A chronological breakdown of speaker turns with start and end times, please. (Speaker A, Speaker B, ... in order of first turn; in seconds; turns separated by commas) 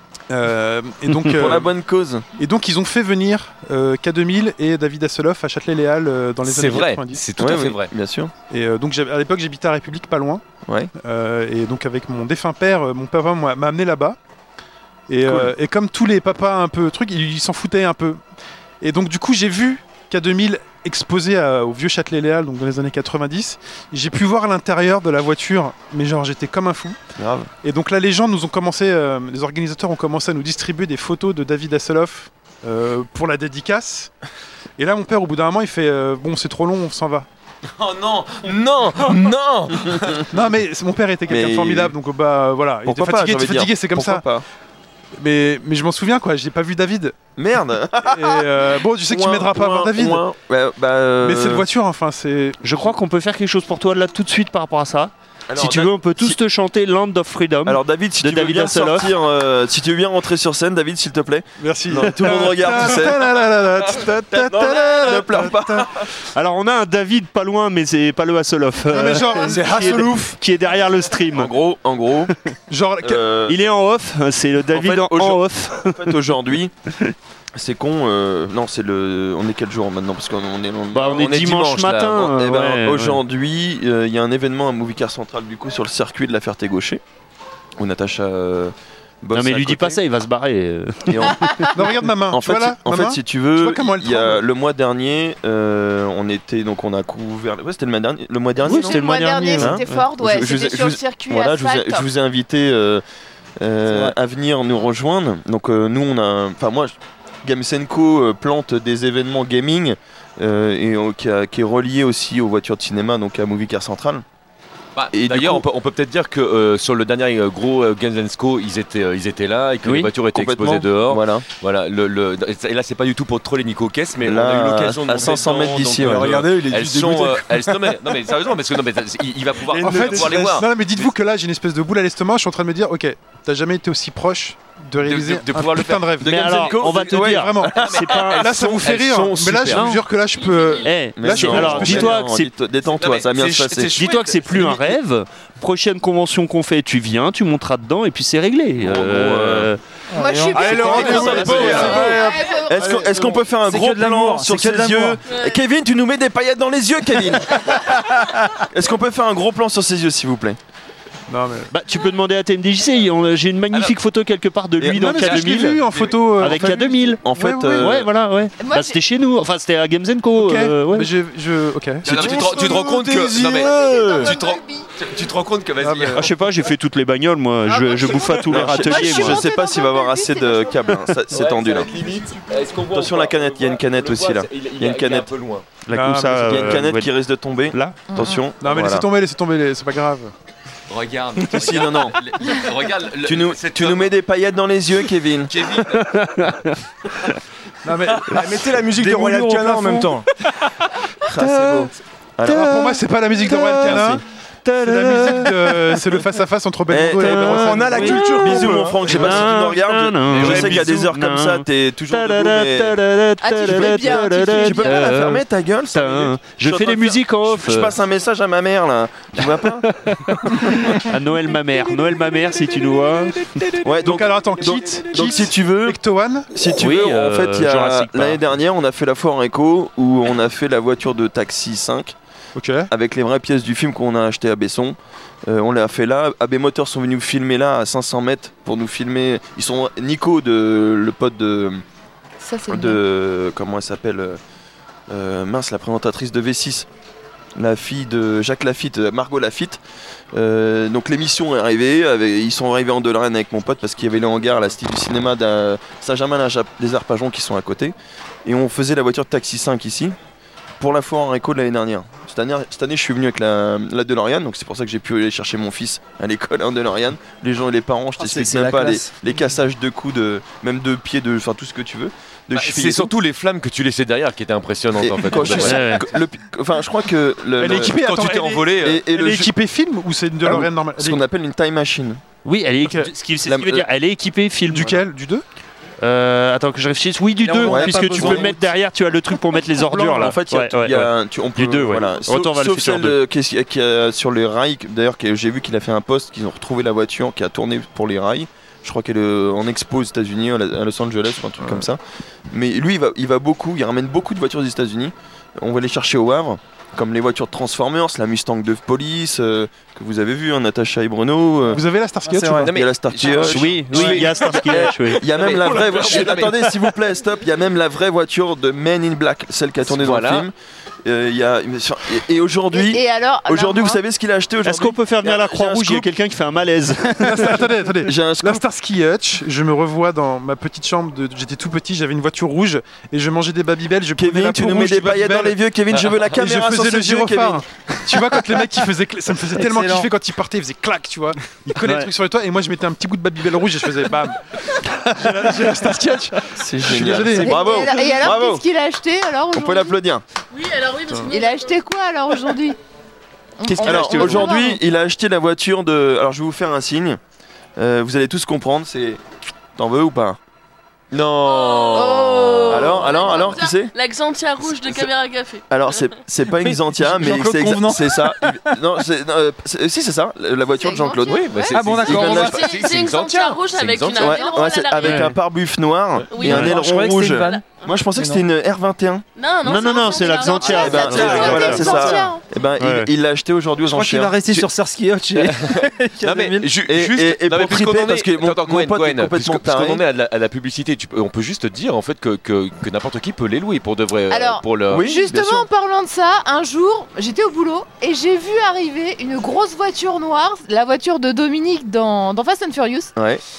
Speaker A: 0.3-1.7, Speaker B: 1.3-2.3, Speaker A: 2.4-7.2, Speaker C: 6.4-7.9, Speaker B: 7.4-8.3, Speaker A: 8.5-10.4, Speaker B: 10.7-10.9, Speaker A: 11.0-14.2, Speaker A: 15.1-18.2, Speaker B: 15.2-15.5, Speaker A: 18.8-27.0, Speaker B: 27.2-27.5, Speaker A: 27.6-34.1, Speaker A: 34.8-37.3, Speaker C: 37.8-40.2, Speaker B: 38.5-40.3, Speaker A: 40.3-44.2, Speaker B: 41.3-41.9, Speaker B: 42.9-44.5, Speaker A: 45.2-47.2, Speaker B: 47.4-51.7, Speaker A: 48.1-50.2, Speaker A: 51.2-52.9, Speaker D: 52.6-59.1, Speaker B: 55.5-56.4, Speaker B: 57.7-63.4, Speaker A: 61.6-65.9, Speaker B: 64.0-66.0, Speaker D: 66.3-71.5, Speaker A: 68.9-70.3, Speaker E: 69.5-70.3, Speaker B: 71.3-72.3, Speaker A: 72.7-73.2, Speaker B: 73.0-73.6, Speaker D: 73.5-76.1, Speaker B: 74.7-76.7, Speaker B: 77.5-81.6, Speaker D: 80.9-83.2, Speaker C: 81.0-82.3, Speaker B: 82.2-87.0, Speaker B: 87.8-90.0, Speaker D: 89.3-91.7, Speaker B: 91.1-103.0, Speaker A: 91.7-94.4, Speaker D: 98.6-100.0, Speaker F: 98.7-102.1, Speaker B: 103.6-114.2, Speaker C: 115.0-131.1, Speaker B: 115.1-115.7, Speaker D: 119.8-120.1, Speaker B: 120.3-121.5, Speaker B: 124.2-126.4, Speaker E: 126.0-127.9, Speaker E: 129.7-130.6, Speaker A: 129.8-136.4, Speaker C: 135.0-136.2, Speaker B: 136.2-138.1, Speaker D: 136.2-138.5, Speaker A: 137.2-142.2, Speaker C: 137.8-139.9, Speaker D: 139.7-140.0, Speaker G: 140.3-140.9, Speaker D: 140.8-142.5, Speaker B: 141.2-144.0, Speaker C: 141.6-141.9, Speaker C: 143.0-144.8, Speaker E: 143.4-143.9, Speaker D: 144.0-149.8, Speaker B: 148.8-149.7, Speaker H: 150.1-151.6, Speaker F: 150.2-153.2, Speaker E: 150.5-152.1, Speaker C: 150.8-152.2, Speaker B: 150.9-158.1, Speaker H: 152.7-155.2, Speaker G: 155.3-155.6, Speaker B: 158.6-160.6, Speaker A: 161.3-161.7, Speaker D: 161.7-165.8, Speaker B: 164.8-168.1, Speaker A: 164.9-167.9, Speaker D: 166.4-171.1, Speaker F: 168.6-169.0, Speaker A: 170.3-172.4, Speaker C: 172.0-176.3, Speaker E: 172.1-174.3, Speaker F: 172.2-172.8, Speaker F: 173.6-174.9, Speaker A: 175.8-176.3, Speaker D: 176.1-179.4, Speaker F: 177.7-180.8, Speaker B: 178.4-181.9, Speaker C: 181.3-185.7, Speaker B: 182.9-185.3, Speaker D: 185.9-187.1, Speaker A: 185.9-186.8, Speaker B: 186.5-189.1, Speaker F: 188.1-188.4, Speaker A: 188.6-190.3, Speaker C: 190.9-194.1, Speaker B: 191.5-192.2, Speaker B: 193.2-195.6, Speaker C: 195.5-196.1, Speaker D: 195.9-196.8, Speaker A: 197.8-198.4, Speaker E: 198.3-200.3, Speaker D: 199.0-200.0, Speaker A: 199.3-200.1, Speaker B: 201.2-202.8, Speaker D: 201.4-201.9, Speaker A: 202.4-204.2, Speaker D: 202.4-206.1, Speaker B: 203.8-204.1, Speaker A: 204.8-208.3, Speaker B: 206.9-213.0, Speaker D: 207.2-217.9, Speaker E: 207.6-209.3, Speaker C: 210.3-210.8, Speaker F: 213.4-215.1, Speaker B: 213.6-219.9, Speaker D: 219.4-223.7, Speaker B: 220.6-220.8, Speaker B: 223.8-226.0, Speaker A: 224.0-226.5, Speaker B: 226.5-232.2, Speaker D: 226.7-228.4, Speaker A: 232.6-232.9, Speaker B: 232.9-241.8, Speaker F: 242.4-243.0, Speaker B: 242.7-244.4, Speaker B: 245.1-246.9, Speaker B: 247.6-249.8, Speaker B: 250.3-257.9, Speaker B: 258.4-260.2, Speaker B: 260.8-273.1, Speaker H: 268.2-269.2, Speaker C: 272.5-275.9, Speaker B: 275.0-278.0, Speaker D: 275.6-276.1, Speaker A: 277.6-281.2, Speaker C: 277.9-279.0, Speaker B: 278.8-279.5, Speaker B: 280.4-282.2, Speaker D: 282.4-285.1, Speaker A: 282.9-283.1, Speaker B: 283.5-283.9, Speaker A: 284.7-285.4, Speaker D: 286.0-293.2, Speaker C: 287.4-288.3, Speaker H: 287.6-288.6, Speaker B: 287.7-288.5, Speaker B: 289.9-311.8, Speaker A: 311.7-312.7, Speaker H: 312.2-312.7, Speaker C: 312.6-316.8, Speaker B: 312.7-320.5, Speaker D: 313.4-315.2, Speaker C: 319.9-320.5, Speaker B: 321.1-326.1, Speaker F: 322.7-324.0, Speaker D: 324.6-327.6, Speaker A: 327.2-335.6, Speaker B: 328.1-328.6, Speaker B: 334.2-338.4, Speaker A: 336.3-347.8, Speaker H: 339.6-340.1, Speaker D: 341.8-342.1, Speaker B: 346.5-348.6, Speaker H: 347.1-347.7, Speaker F: 347.4-350.0, Speaker B: 349.5-350.2, Speaker G: 350.5-351.8, Speaker F: 351.3-352.8, Speaker F: 353.6-354.8, Speaker B: 353.7-357.2, Speaker C: 354.0-354.4, Speaker B: 357.8-359.2, Speaker B: 359.8-360.4, Speaker C: 361.1-363.7, Speaker G: 361.4-366.2, Speaker F: 362.0-362.3, Speaker B: 362.7-363.9, Speaker B: 365.7-371.5, Speaker H: 366.9-368.7, Speaker F: 370.8-371.7, Speaker C: 371.3-374.4, Speaker G: 371.4-375.3, Speaker H: 371.7-372.5, Speaker B: 372.0-372.8, Speaker B: 374.2-379.2, Speaker D: 375.0-375.3, Speaker G: 376.3-378.1, Speaker D: 376.4-376.7, Speaker H: 376.5-377.6, Speaker H: 378.1-378.4, Speaker G: 379.4-381.6, Speaker D: 379.6-382.1, Speaker F: 380.6-382.4, Speaker B: 380.7-384.7, Speaker D: 382.8-383.1, Speaker H: 383.9-386.7, Speaker C: 385.4-395.1, Speaker B: 386.8-390.0, Speaker F: 394.3-403.1, Speaker B: 394.9-395.7, Speaker B: 403.2-403.4